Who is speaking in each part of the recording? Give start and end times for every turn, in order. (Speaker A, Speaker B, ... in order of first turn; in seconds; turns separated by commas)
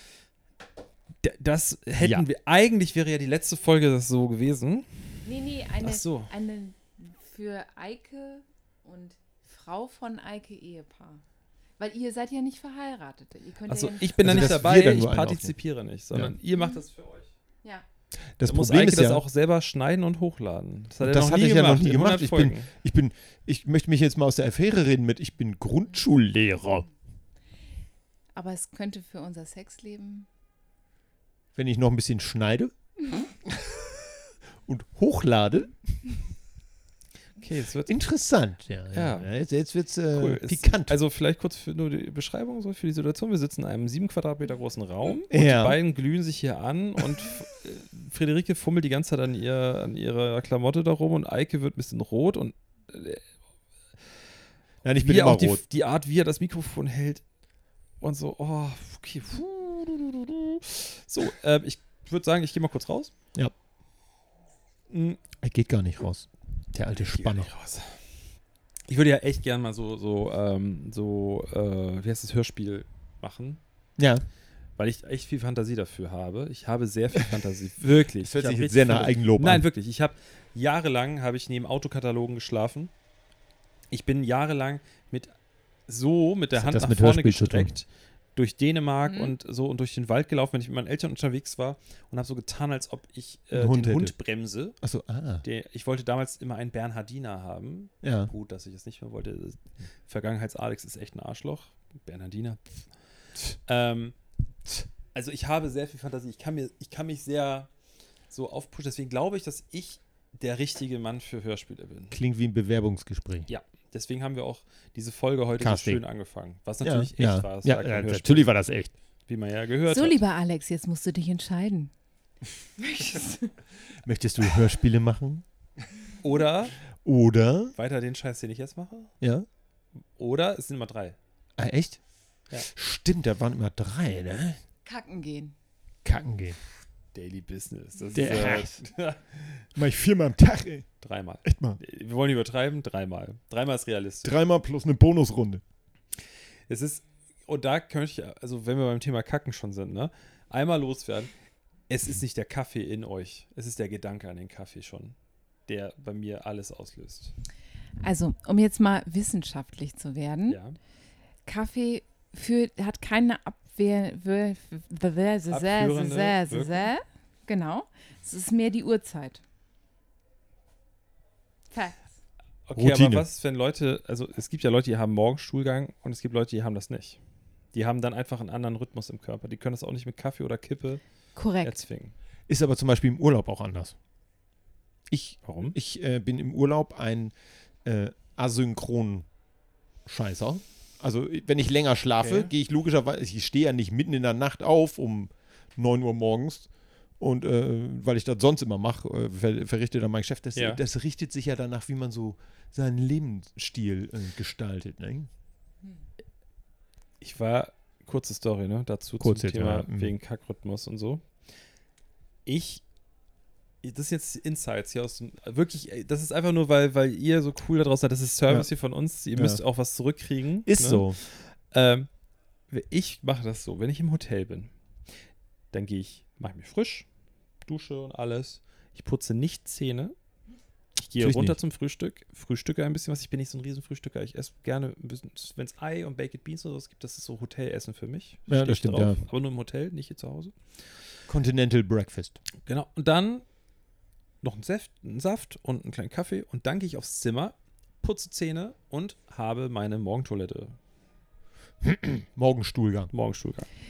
Speaker A: 1.2-5.2, Speaker B: 2.0-2.2, Speaker C: 5.2-11.2, Speaker A: 5.8-6.3, Speaker C: 11.8-14.5, Speaker A: 13.7-17.3, Speaker B: 14.2-15.5, Speaker B: 18.4-19.2, Speaker A: 18.4-22.7, Speaker B: 21.0-26.9, Speaker C: 28.3-30.3, Speaker B: 31.5-32.7, Speaker B: 33.4-34.1, Speaker B: 34.6-35.8, Speaker A: 37.4-38.0, Speaker B: 37.9-41.0, Speaker A: 38.9-39.3, Speaker A: 40.1-53.2, Speaker B: 45.3-45.8, Speaker B: 54.8-55.6, Speaker A: 55.0-57.2, Speaker A: 58.0-63.1, Speaker A: 64.9-65.2, Speaker B: 65.4-67.5, Speaker A: 67.0-68.0, Speaker A: 68.9-73.6, Speaker B: 74.0-74.2, Speaker A: 74.8-82.9, Speaker B: 78.2-79.7, Speaker A: 83.9-85.3, Speaker A: 85.9-94.8, Speaker B: 86.5-87.7, Speaker C: 89.0-89.3, Speaker B: 93.5-94.1, Speaker B: 94.8-95.4, Speaker A: 95.4-102.8, Speaker B: 98.0-98.3, Speaker A: 103.7-104.2, Speaker A: 105.1-107.7, Speaker A: 108.3-112.2, Speaker B: 112.1-113.5, Speaker A: 113.5-118.5, Speaker B: 115.6-116.0, Speaker B: 116.8-118.9, Speaker A: 119.2-120.2, Speaker C: 119.9-121.9, Speaker C: 122.8-123.5, Speaker B: 124.0-125.4, Speaker A: 126.2-126.7, Speaker B: 127.0-127.7, Speaker A: 127.8-129.1, Speaker B: 129.2-129.4, Speaker A: 130.2-131.2, Speaker B: 131.6-132.0, Speaker B: 132.6-134.6, Speaker C: 134.8-135.5, Speaker B: 136.0-136.6, Speaker A: 137.1-139.6, Speaker B: 138.1-138.8, Speaker B: 139.7-140.9, Speaker A: 141.0-144.3, Speaker B: 141.4-141.8, Speaker B: 144.2-145.6, Speaker A: 146.7-151.3, Speaker A: 151.9-155.1, Speaker A: 155.7-157.3, Speaker C: 158.0-160.6, Speaker A: 160.5-160.8, Speaker C: 161.4-169.4, Speaker A: 165.5-166.9, Speaker C: 171.7-172.1, Speaker A: 172.7-177.2, Speaker B: 172.8-173.2, Speaker A: 177.7-181.0, Speaker C: 181.3-181.8, Speaker A: 181.6-182.1, Speaker B: 182.5-183.9, Speaker B: 185.1-187.3, Speaker A: 185.4-185.8, Speaker B: 187.8-189.3, Speaker B: 190.1-196.7, Speaker A: 192.2-192.5, Speaker B: 197.2-205.3, Speaker A: 200.6-200.8, Speaker A: 207.2-211.2, Speaker B: 209.2-210.1, Speaker A: 212.4-212.8, Speaker A: 213.8-222.1, Speaker B: 219.3-219.6, Speaker B: 220.7-221.2, Speaker A: 222.7-224.7, Speaker A: 225.7-227.1, Speaker A: 227.7-230.1, Speaker A: 231.0-240.6, Speaker B: 231.2-231.6, Speaker B: 238.5-239.2, Speaker B: 241.3-242.4, Speaker A: 242.7-243.4, Speaker A: 244.4-250.8, Speaker B: 251.8-253.1, Speaker A: 253.1-253.7